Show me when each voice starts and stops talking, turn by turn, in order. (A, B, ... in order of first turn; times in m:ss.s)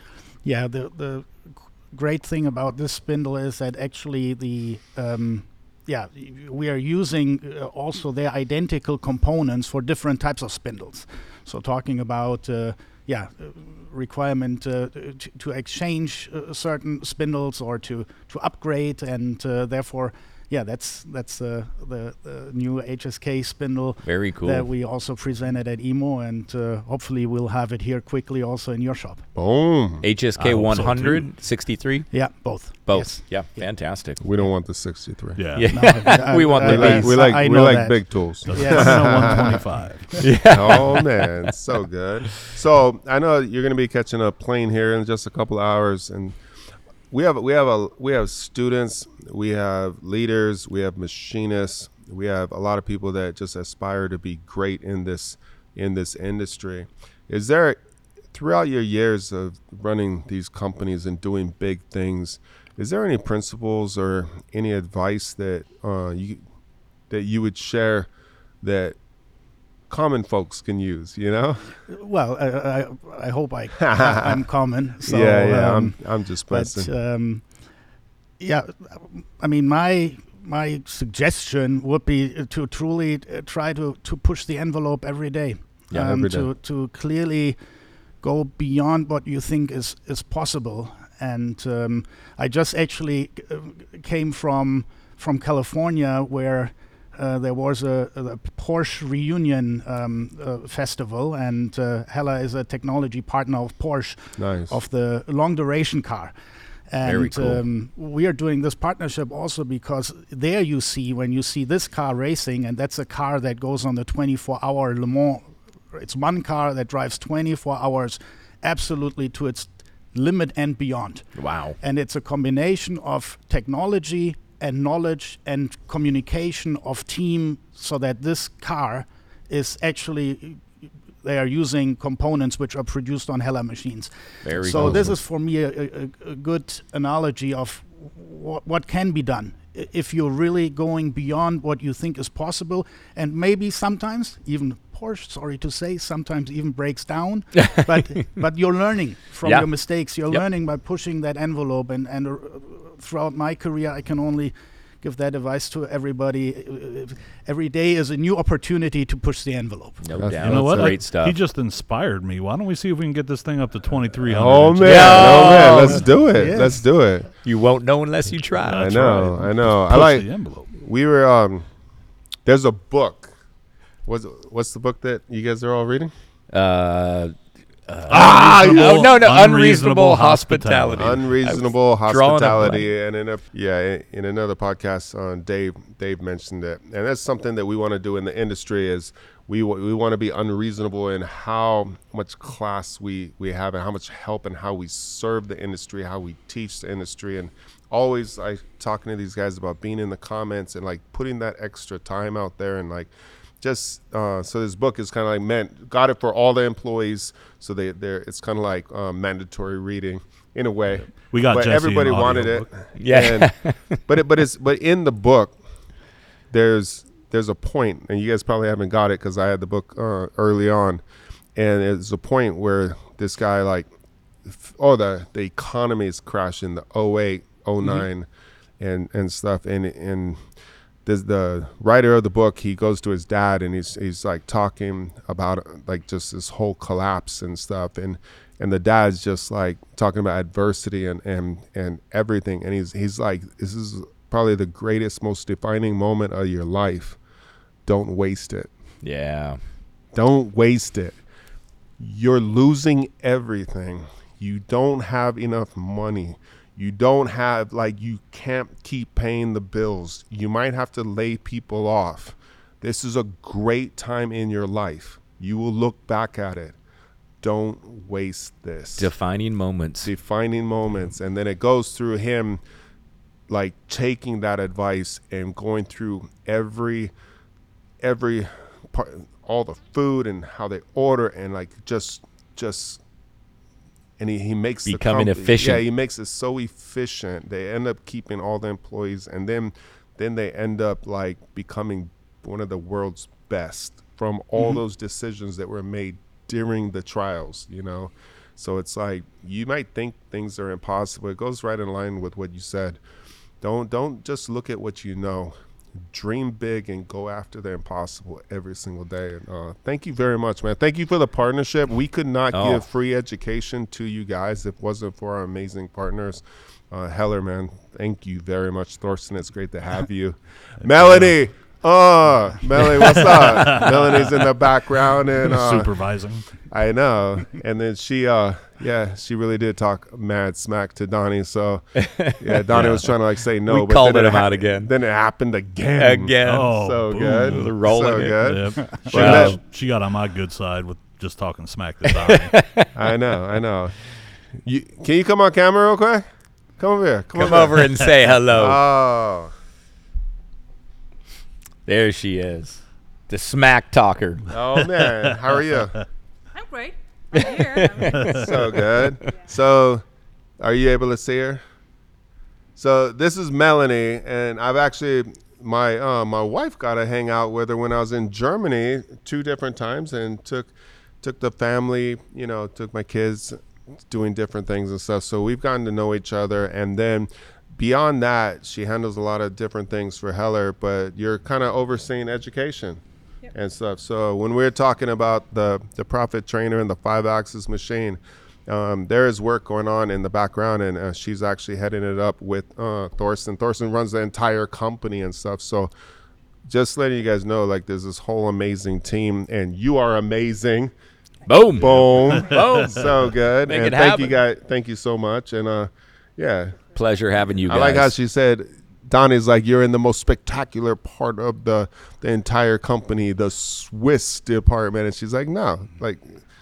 0:00.4-0:29.2 A
0:24.0-0:24.7 B
0:29.4-0:30.1 C
0:30.0-0:32.3 B
0:30.4-0:31.3 D
0:32.1-0:33.7 A
0:32.9-0:34.2 B
0:34.2-0:35.4 C
0:35.4-0:36.2 D
0:35.5-0:37.2 B
0:35.7-0:40.2 A
0:36.5-0:39.6 C
0:38.5-0:40.2 D
0:40.2-0:46.4 C
0:40.2-0:41.3 B
0:47.1-0:57.8 C
0:58.3-1:06.4 C
1:07.1-1:08.1 C
1:08.6-1:09.0 C
1:09.9-1:11.8 C
1:11.9-1:17.6 A
1:13.8-1:14.4 C
1:15.0-1:16.9 C
1:18.4-1:27.6 A
1:25.9-1:26.5 C
1:28.2-1:46.3 A
1:44.4-1:44.8 C
1:46.9-2:40.0 A
1:47.0-1:47.6 B
2:01.4-2:01.8 B
2:14.4-2:15.1 B
2:14.7-2:15.2 C
2:27.6-2:28.0 B
2:40.0-2:41.4 B
2:40.2-2:41.0 C
2:40.4-2:46.1 D
2:44.2-2:47.3 C
2:44.8-2:46.1 B
2:46.2-2:46.8 A
2:47.4-2:49.0 B
2:48.6-2:50.7 D
2:48.7-2:51.7 C
2:52.4-2:53.3 C
2:54.1-2:56.1 C
2:56.5-2:57.4 B
2:57.9-3:02.9 B
2:58.1-3:01.3 D
2:58.1-2:59.2 C
3:01.0-3:35.6 C
3:30.9-3:32.7 D
3:33.0-3:34.0 B
3:36.5-3:41.0 C
3:41.6-3:43.9 C
3:44.5-3:48.3 C
3:48.8-3:50.4 C
3:51.0-4:07.2 C
4:07.9-4:08.7 C
4:09.0-4:09.6 B
4:10.1-4:11.2 C
4:12.0-4:26.8 C
4:27.4-4:29.1 C
4:29.0-4:30.1 B
4:30.0-4:32.6 C
4:33.5-4:37.1 C
4:38.0-4:43.0 C
4:44.2-5:03.0 C
4:44.9-4:45.8 B
5:03.6-5:26.0 C
5:12.5-5:12.8 B
5:20.8-5:21.3 D
5:22.8-5:24.4 D
5:25.4-5:26.5 D
5:26.6-5:39.6 C
5:32.0-5:33.1 B
5:32.7-5:33.1 D
5:33.7-5:34.9 B
5:36.0-5:39.6 B
5:36.4-5:42.6 D
5:42.1-5:42.9 B
5:42.9-5:44.0 C
5:44.6-5:46.2 C
5:46.8-5:47.9 C
5:47.4-5:48.8 B
5:47.5-5:48.1 D
5:48.5-5:49.5 C
5:51.9-5:54.5 B
5:54.5-5:56.0 C
5:56.5-5:58.5 E
5:57.4-5:59.4 B
5:58.2-5:58.4 D
5:58.3-6:00.0 C
6:00.6-6:01.6 C
6:02.8-6:13.6 C
6:14.1-6:35.9 C
6:36.6-6:40.9 C
6:41.5-6:44.4 B
6:41.7-6:46.8 C
6:41.8-6:42.6 D
6:47.0-6:48.1 B
6:47.7-6:56.4 C